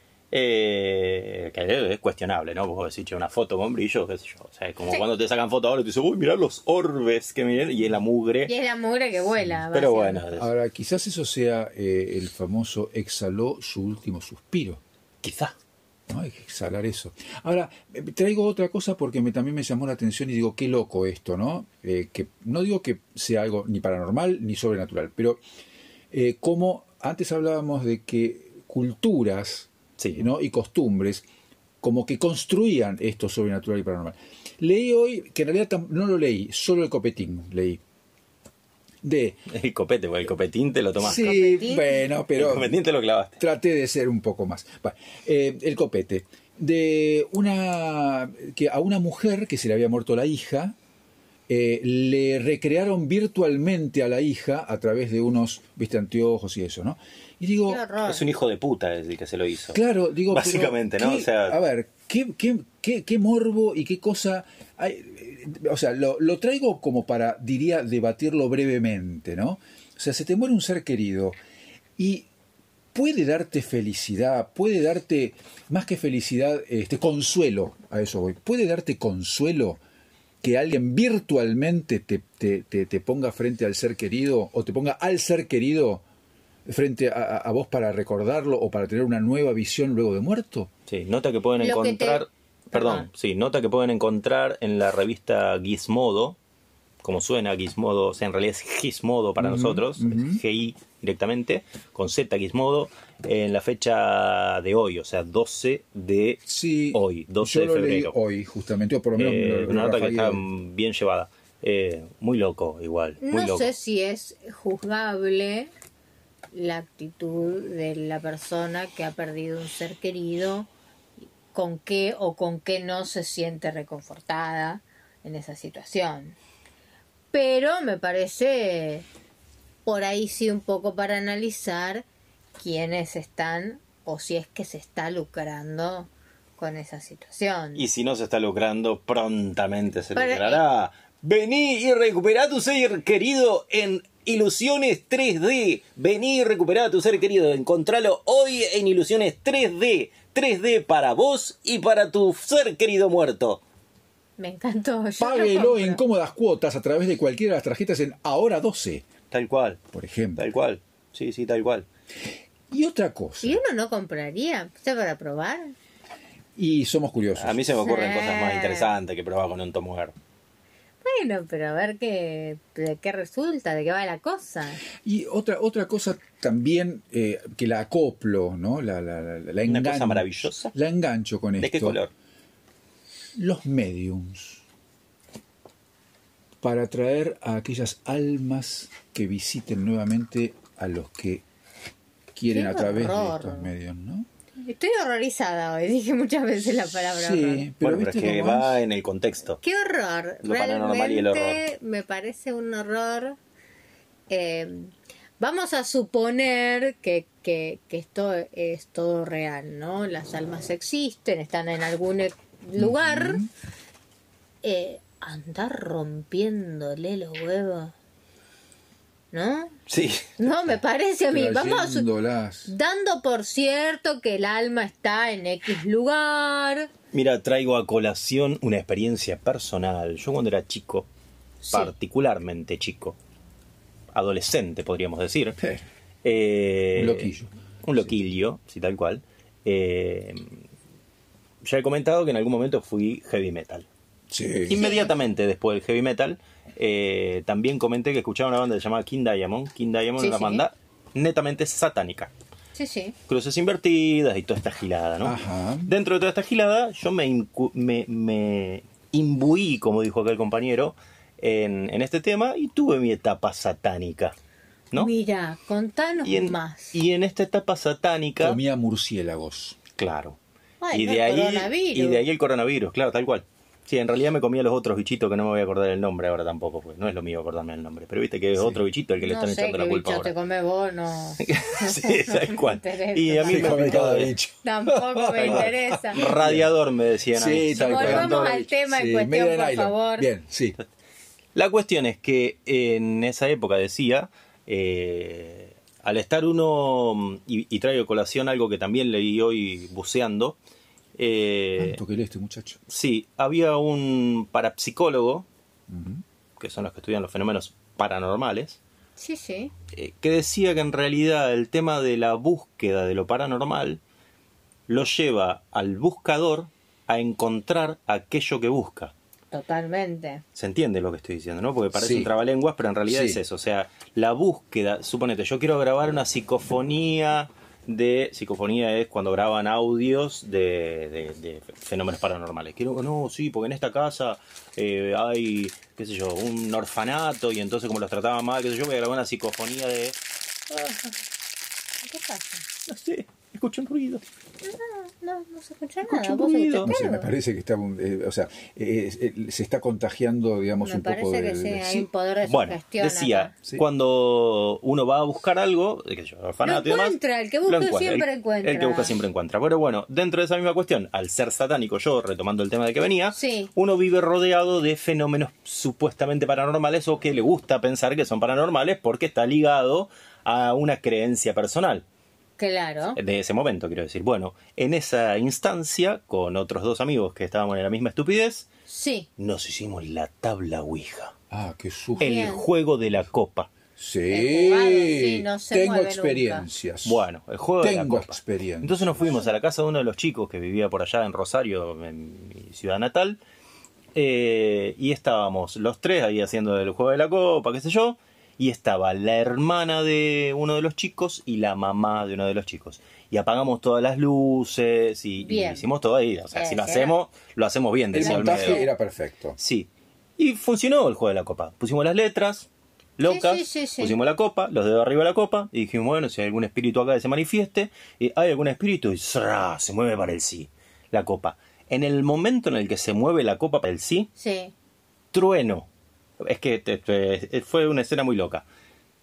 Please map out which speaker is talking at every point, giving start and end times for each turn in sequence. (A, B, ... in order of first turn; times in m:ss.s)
0:00.3-0:08.5 A
0:08.5-0:10.2 B
0:09.7-0:10.5 A
0:10.3-0:14.8 C
0:15.2-0:15.5 A
0:16.1-0:25.4 C
0:26.1-0:31.2 C
0:30.0-0:30.3 A
0:31.8-0:37.8 C
0:39.0-0:39.4 C
0:39.5-0:41.3 A
0:41.0-0:42.7 C
0:41.0-0:42.1 B
0:42.3-0:43.4 A
0:43.4-0:50.7 C
0:51.5-0:57.8 C
0:57.6-0:58.3 B
0:58.0-1:01.6 A
0:59.7-1:11.4 C
1:12.0-1:12.3 C
1:12.9-1:19.8 C
1:20.4-1:26.0 C
1:26.6-1:30.7 C
1:30.9-1:36.4 A
1:31.6-1:33.1 B
1:37.0-1:48.1 A
1:39.4-1:40.4 C
1:46.5-1:50.4 C
1:49.1-1:53.7 A
1:53.2-1:55.7 B
1:56.5-2:00.7 B
2:01.5-2:06.4 B
2:07.3-2:09.0 B
2:09.8-2:12.0 B
2:12.6-2:17.8 B
2:17.7-2:33.6 A
2:20.1-2:20.6 B
2:34.4-2:36.0 B
2:35.2-2:39.0 C
2:39.3-2:39.8 A
2:39.9-2:40.5 C
2:40.4-2:41.8 A
2:42.7-2:43.6 C
2:43.4-2:45.7 B
2:46.6-2:47.7 C
2:47.4-2:50.1 A
2:47.8-2:48.9 B
2:51.0-2:54.8 B
2:55.0-3:02.0 C
2:59.6-3:00.7 A
3:01.6-3:02.1 A
3:03.4-3:04.6 C
3:06.6-3:11.4 C
3:12.3-3:14.3 C
3:12.4-3:13.7 B
3:14.6-3:17.7 B
3:17.0-3:18.8 C
3:17.8-3:19.6 A
3:19.6-3:23.4 B
3:20.4-3:21.6 A
3:24.3-3:33.4 B
3:32.8-3:33.5 C
3:34.6-3:37.9 B
3:39.3-3:39.8 B
3:39.9-3:40.8 A
3:40.4-3:42.1 B
3:41.3-3:42.7 C
3:42.7-3:46.9 B
3:47.1-3:51.1 A
3:51.6-3:51.9 B
3:51.7-3:53.2 A
3:54.1-3:55.6 A
3:56.2-3:57.3 A
3:56.9-3:58.0 C
3:57.8-4:00.6 A
4:01.6-4:03.9 A
4:04.3-4:04.8 C
4:04.7-4:12.3 A
4:04.8-4:05.1 B
4:10.2-4:10.6 B
4:12.7-4:13.2 B
4:13.3-4:24.3 A
4:15.2-4:15.9 C
4:25.0-4:27.0 B
4:26.2-4:28.6 A
4:28.4-4:29.8 C
4:30.0-4:30.4 A
4:30.8-4:32.2 B
4:30.9-4:40.3 A
4:38.6-4:38.8 C
4:39.2-4:46.3 B
4:41.4-4:44.3 A
4:43.4-4:46.7 C
4:45.4-4:48.6 A
4:47.3-4:50.8 C
4:47.7-4:50.3 B
4:51.5-5:00.6 A
5:01.2-5:02.0 A
5:01.8-5:02.8 C
5:02.9-5:05.4 A
5:05.9-5:06.2 C
5:06.6-5:08.8 A
5:09.2-5:09.7 B
5:09.9-5:14.0 A
5:14.9-5:19.1 A
5:19.5-5:20.4 B
5:20.5-5:41.0 A
5:21.9-5:22.3 C
5:23.1-5:23.4 C
5:42.0-5:42.6 B
5:42.8-5:44.2 A
5:44.6-5:47.3 B
5:46.0-5:46.9 A
5:46.8-5:52.1 C
5:50.8-5:53.5 B
5:52.4-6:12.0 A
5:56.6-5:59.2 B
6:03.3-6:03.7 B
6:12.6-6:13.2 B
6:13.2-6:18.7 A
6:18.9-6:19.3 B
6:19.4-6:21.3 A
6:21.5-6:22.4 C
6:22.2-6:22.6 B
6:22.2-6:23.7 A
6:24.0-6:27.2 C
6:24.3-6:26.7 B
6:27.0-6:33.4 A
6:27.8-6:29.4 C
6:34.1-6:48.9 A
6:45.4-6:45.9 B
6:46.5-6:47.1 B
6:48.1-6:49.6 C
6:48.1-6:48.9 B
6:49.6-7:04.3 A
6:53.2-6:54.2 B
7:04.4-7:04.7 B
7:05.3-7:05.9 A
7:06.4-7:08.6 A